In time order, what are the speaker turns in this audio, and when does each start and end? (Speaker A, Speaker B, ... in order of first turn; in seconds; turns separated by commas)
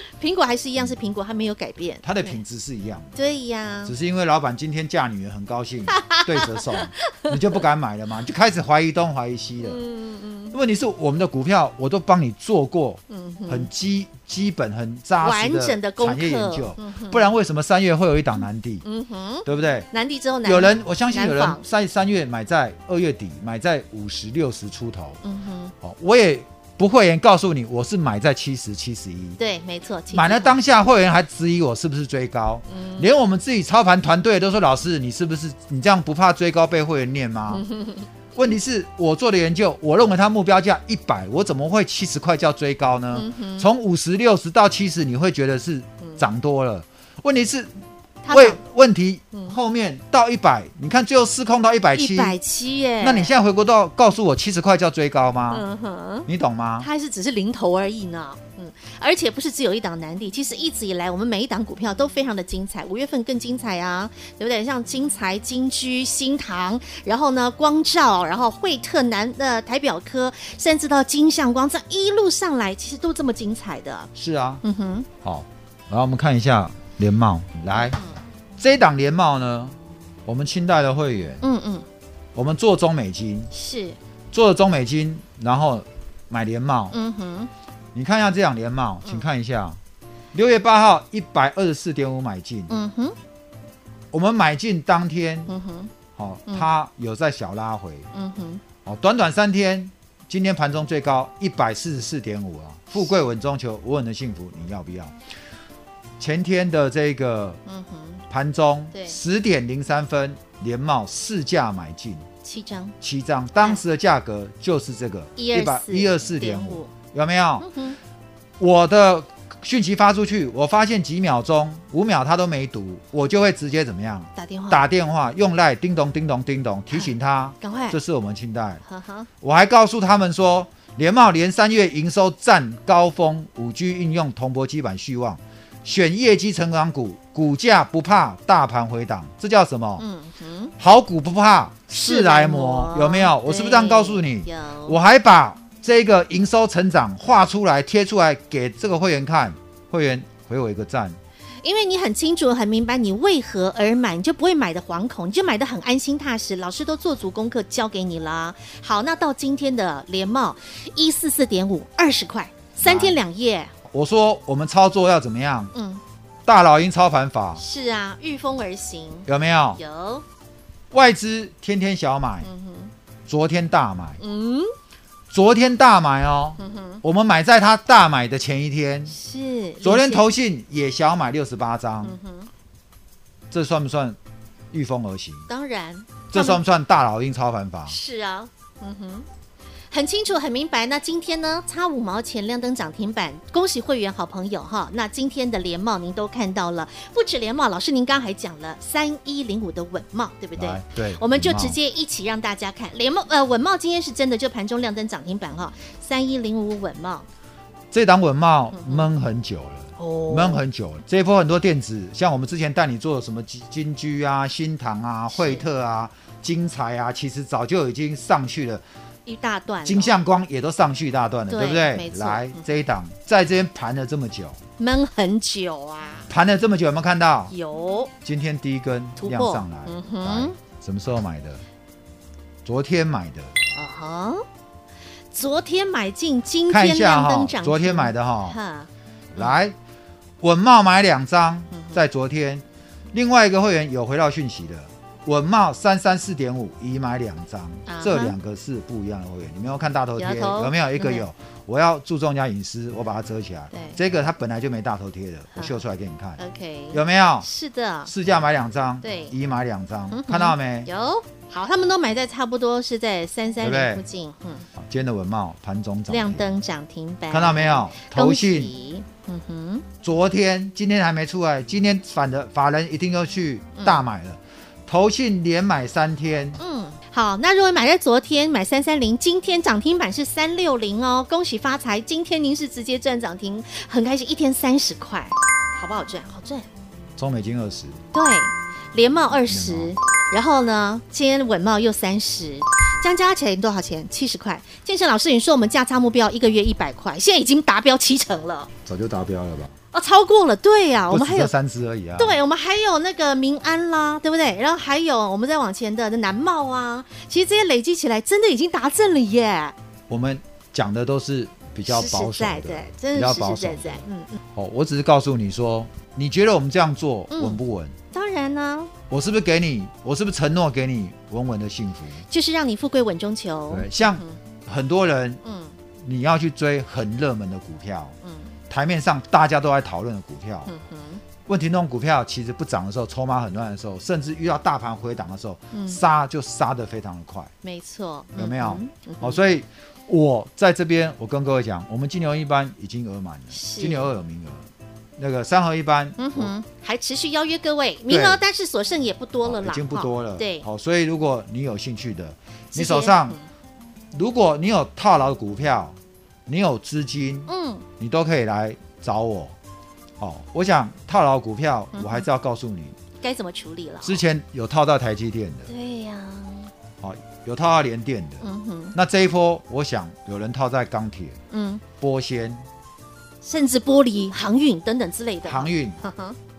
Speaker A: 0.1-2.4, Speaker B: 2.0-3.1, Speaker A: 3.1-3.9, Speaker B: 3.9-9.8, Speaker A: 5.9-7.3, Speaker A: 9.6-10.5, Speaker B: 10.5-18.8, Speaker A: 13.1-13.7, Speaker A: 15.2-17.3, Speaker A: 18.8-21.6, Speaker B: 19.4-19.9, Speaker B: 20.4-25.2, Speaker A: 25.2-25.7, Speaker B: 25.8-29.4, Speaker A: 29.4-30.5, Speaker B: 30.1-37.7, Speaker A: 32.7-33.1, Speaker A: 37.5-38.1, Speaker B: 38.3-47.7, Speaker A: 43.1-43.7, Speaker A: 48.2-48.6, Speaker B: 48.3-52.4, Speaker A: 51.9-53.3, Speaker B: 53.0-55.6, Speaker A: 55.5-56.3, Speaker B: 56.3-56.9, Speaker A: 56.8-74.1, Speaker B: 74.1-74.6, Speaker A: 74.6-75.1, Speaker B: 75.2-78.0, Speaker A: 77.7-78.2, Speaker B: 78.6-81.4, Speaker A: 81.4-81.8, Speaker B: 82.3-83.5, Speaker A: 83.5-84.0, Speaker B: 84.3-87.0, Speaker A: 86.9-87.5, Speaker B: 87.9-89.8, Speaker B: 90.3-92.7, Speaker A: 92.7-93.2, Speaker B: 94.1-95.5, Speaker A: 95.5-95.9, Speaker B: 96.1-98.1, Speaker A: 98.1-98.6, Speaker B: 98.8-105.2, Speaker B: 106.2-107.6, Speaker A: 107.7-108.2, Speaker B: 108.3-112.2, Speaker A: 108.9-109.2, Speaker A: 112.4-112.9, Speaker B: 113.0-117.7, Speaker A: 115.4-116.9, Speaker A: 117.6-118.0, Speaker B: 118.6-128.8, Speaker A: 124.3-124.8, Speaker A: 127.6-128.0, Speaker A: 128.8-129.3, Speaker B: 129.4-140.0, Speaker A: 140.0-140.7, Speaker B: 140.8-151.2, Speaker A: 141.9-144.9, Speaker A: 151.6-163.7, Speaker B: 162.8-163.2, Speaker B: 163.9-165.7, Speaker A: 165.7-166.0, Speaker B: 166.4-167.6, Speaker A: 167.6-170.2, Speaker B: 169.3-169.8, Speaker B: 170.9-172.5, Speaker A: 172.4-172.9, Speaker B: 173.3-174.2, Speaker A: 174.2-174.7, Speaker B: 175.3-179.2, Speaker A: 176.6-177.0, Speaker A: 179.1-180.2, Speaker B: 179.8-182.2, Speaker A: 182.0-182.5, Speaker B: 183.5-184.2, Speaker B: 184.7-185.5, Speaker A: 185.5-186.6, Speaker B: 186.3-188.0, Speaker A: 187.9-189.2, Speaker A: 189.9-207.2, Speaker B: 200.6-201.8, Speaker B: 207.9-218.8, Speaker A: 208.7-209.1, Speaker A: 210.0-210.6, Speaker A: 215.3-215.6, Speaker A: 219.2-220.2, Speaker B: 219.8-224.6, Speaker A: 221.5-222.7, Speaker A: 224.8-226.3, Speaker B: 226.3-227.5, Speaker A: 227.5-228.1, Speaker B: 228.2-231.6, Speaker A: 229.2-230.6, Speaker B: 232.6-233.6, Speaker A: 233.7-234.4, Speaker A: 235.3-239.5, Speaker B: 236.7-238.6, Speaker B: 239.3-239.8, Speaker B: 240.4-256.4, Speaker A: 241.7-242.0, Speaker A: 247.9-248.3, Speaker A: 250.2-251.2, Speaker A: 253.7-254.0, Speaker A: 255.5-255.8, Speaker A: 256.4-258.1, Speaker B: 256.9-257.5, Speaker B: 258.1-260.9, Speaker A: 259.0-259.3, Speaker A: 260.1-264.7, Speaker B: 263.6-264.0, Speaker B: 264.8-266.5, Speaker A: 266.1-269.9, Speaker B: 267.3-268.7, Speaker B: 270.0-276.6, Speaker A: 273.8-274.0, Speaker A: 276.6-286.7, Speaker B: 287.2-288.0, Speaker A: 288.1-298.7, Speaker B: 289.4-289.9, Speaker B: 298.8-299.7, Speaker A: 299.9-301.5, Speaker B: 301.1-302.4, Speaker A: 302.2-309.7, Speaker B: 310.1-317.9, Speaker A: 311.9-314.4, Speaker A: 317.3-317.6, Speaker A: 318.1-318.9, Speaker B: 319.1-322.2, Speaker A: 322.3-324.4, Speaker B: 323.7-325.4, Speaker A: 325.4-325.7, Speaker B: 326.0-328.1, Speaker A: 328.2-328.5, Speaker B: 328.7-330.7, Speaker A: 330.7-331.2, Speaker B: 331.4-337.5, Speaker A: 335.7-336.0, Speaker A: 337.6-339.4, Speaker B: 338.3-346.5, Speaker A: 343.5-344.1, Speaker A: 346.2-350.6, Speaker B: 348.1-348.4, Speaker B: 349.4-353.4, Speaker A: 352.7-353.4, Speaker B: 354.1-355.9, Speaker B: 356.5-359.5, Speaker A: 357.5-357.8, Speaker B: 360.2-362.9, Speaker A: 361.9-362.2, Speaker A: 363.2-364.2, Speaker B: 364.0-365.7, Speaker A: 365.7-366.7, Speaker B: 367.0-371.4, Speaker A: 368.4-368.9, Speaker A: 371.5-371.8, Speaker B: 372.0-372.6, Speaker A: 373.4-376.4, Speaker B: 375.4-376.0